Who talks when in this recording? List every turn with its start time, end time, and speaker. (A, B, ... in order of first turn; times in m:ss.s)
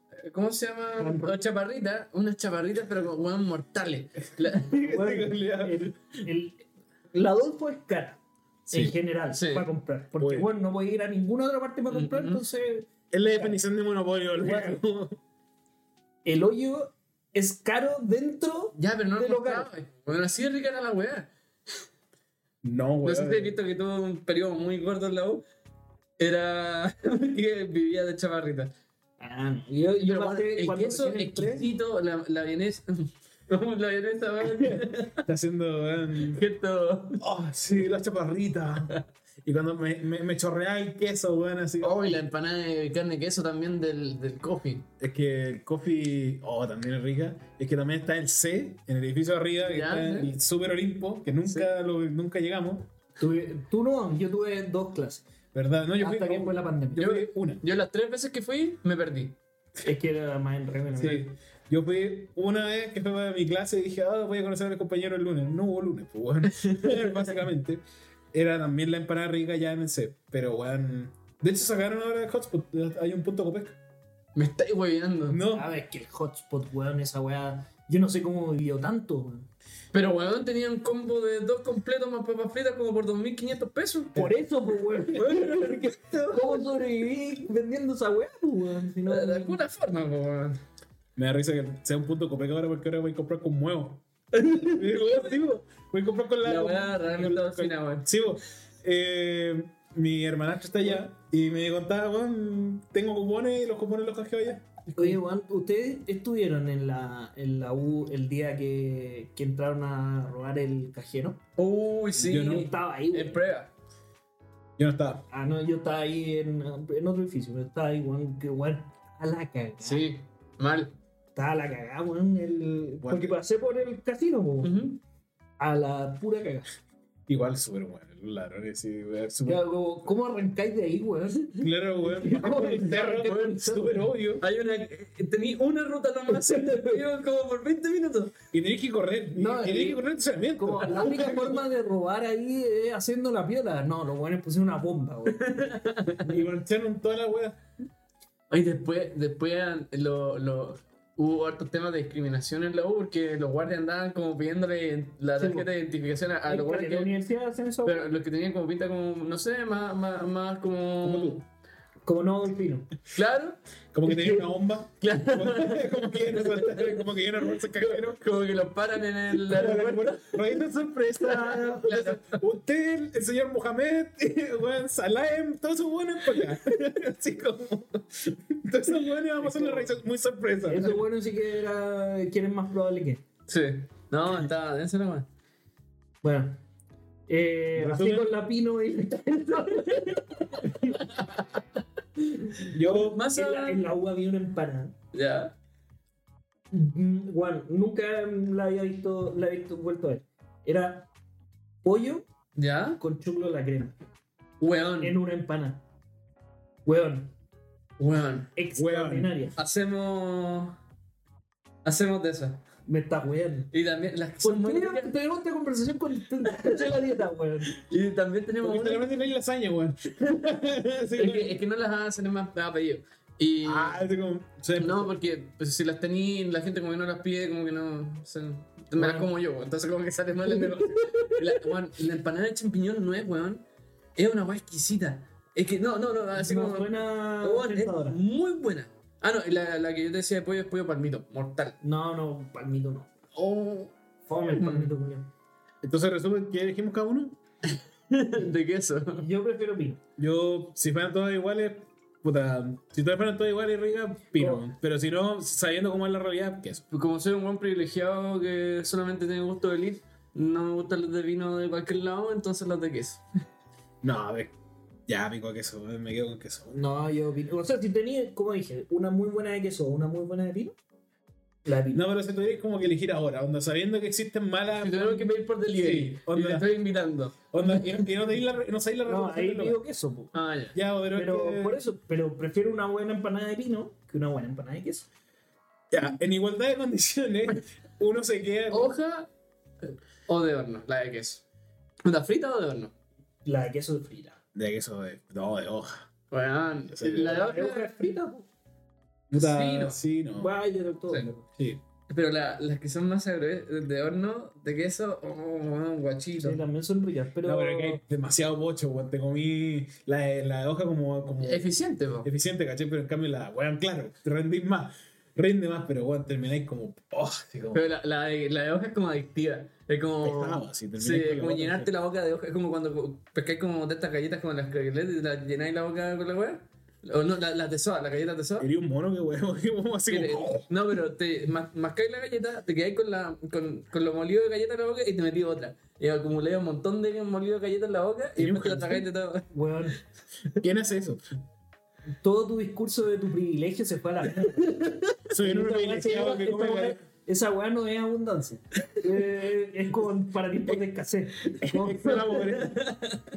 0:00.2-0:04.8 A
0:01.0-0:01.4 B
0:04.5-0:05.9 C
0:04.8-0:13.6 B
0:09.3-0:09.7 A
0:10.2-0:10.5 C
0:11.9-0:12.4 A
0:13.1-0:15.2 C
0:16.2-0:19.7 B
0:18.8-0:21.3 A
0:22.6-0:23.6 C
0:23.0-0:25.4 A
0:26.2-0:28.7 A
0:29.2-0:31.6 B
0:30.0-0:35.2 A
0:34.6-0:36.4 C
0:36.2-0:37.2 A
0:37.2-0:42.2 C
0:41.8-0:44.9 A
0:45.0-0:52.9 C
0:49.6-0:50.3 A
0:53.2-0:55.2 B
0:55.5-0:57.6 C
0:56.0-0:57.0 B
0:56.9-0:59.4 A
0:59.8-1:01.2 B
1:01.0-1:07.8 C
1:06.5-1:07.1 A
1:08.3-1:13.8 C
1:14.3-1:15.4 A
1:15.3-1:15.7 C
1:15.5-1:19.5 B
1:19.9-1:24.2 A
1:24.1-1:29.6 B
1:25.1-1:26.6 A
1:29.1-1:30.6 A
1:31.2-1:34.0 C
1:34.3-1:35.1 A
1:34.6-1:45.1 C
1:36.4-1:38.0 A
1:45.0-1:51.4 B
1:51.6-1:53.7 A
1:52.2-1:52.7 C
1:52.3-1:53.4 B
1:54.8-1:55.2 C
1:55.3-2:00.1 B
1:59.8-2:00.9 A
2:01.3-2:04.7 B
2:03.0-2:03.4 C
2:04.6-2:05.0 A
2:05.6-2:06.7 B
2:07.3-2:09.6 C
2:09.4-2:13.9 B
2:11.6-2:14.4 C
2:13.1-2:18.4 A
2:18.5-2:21.3 C
2:19.3-2:20.0 B
2:20.6-2:25.6 B
2:20.9-2:21.6 A
2:25.3-2:26.3 A
2:26.2-2:27.6 C
2:28.5-2:37.2 A
2:35.4-2:35.7 B
2:36.4-2:38.0 B
2:37.8-2:41.4 A
2:41.0-2:41.4 C
2:42.0-2:42.9 B
2:43.1-2:43.6 A
2:43.9-2:48.2 C
2:44.1-2:44.4 B
2:45.0-2:47.1 A
2:47.6-2:50.5 A
2:49.4-3:01.0 C
2:51.4-2:52.4 A
2:59.4-2:59.9 B
3:00.6-3:03.2 B
3:03.5-3:05.3 A
3:06.2-3:06.6 B
3:07.3-3:10.9 B
3:07.8-3:08.3 C
3:11.2-3:11.4 A
3:12.4-3:14.9 B
3:12.7-3:13.2 C
3:13.0-3:13.8 A
3:15.1-3:15.5 A
3:16.7-3:21.1 B
3:21.8-3:22.3 B
3:22.5-3:23.0 A
3:23.0-3:23.9 B
3:24.6-3:25.2 A
3:25.0-3:25.8 B
3:26.8-3:27.3 B
3:28.0-3:28.5 A
3:28.6-3:29.5 B
3:28.7-3:29.3 C
3:29.6-3:30.8 A
3:31.8-3:32.6 A
3:32.8-3:33.7 B
3:33.7-3:35.1 A
3:34.4-3:37.7 B
3:37.7-3:39.1 A
3:38.6-3:41.6 C
3:41.2-3:44.0 A
3:43.6-3:45.1 C
3:44.8-3:53.6 A
3:48.9-3:49.3 B
3:50.7-3:51.3 B
3:54.2-4:01.8 A
3:56.4-3:58.2 B
4:01.8-4:03.1 B
4:03.3-4:03.9 A
4:04.3-4:05.3 B
4:04.5-4:04.9 A
4:05.8-4:07.4 C
4:07.7-4:09.2 A
4:09.1-4:10.0 B
4:10.2-4:16.8 C
4:14.4-4:14.6 B
4:16.9-4:23.2 A
4:24.0-4:24.5 C
4:25.1-4:26.8 C
4:26.7-4:30.7 B
4:31.6-4:32.0 B
4:31.9-4:36.6 C
4:34.8-4:37.4 A
4:37.5-4:39.8 C
4:39.0-4:40.3 B
4:40.3-4:40.8 A
4:40.7-4:41.8 C
4:41.1-4:45.1 B
4:45.9-4:48.9 C
4:48.7-4:49.3 A
4:49.8-4:51.4 A
4:52.0-4:52.9 A
4:53.4-4:54.4 B
4:54.5-4:56.0 C
4:56.3-4:58.0 A
4:56.9-4:57.4 C
4:57.3-4:58.5 B
4:59.3-5:00.5 C
4:59.3-5:00.0 A
5:00.4-5:01.4 B
5:01.4-5:01.8 C
5:02.1-5:06.6 A
5:06.4-5:08.0 B
5:07.4-5:11.6 C
5:11.4-5:12.3 A
5:12.2-5:17.8 C
5:17.7-5:28.7 A
5:20.2-5:21.9 C
5:28.6-5:30.7 C
5:30.1-5:39.5 A
5:38.4-5:39.1 C
5:39.5-5:40.0 B
5:40.6-5:41.2 C
5:42.2-5:52.4 B
5:45.3-5:47.0 C
5:51.6-5:52.8 C
5:52.1-5:53.2 A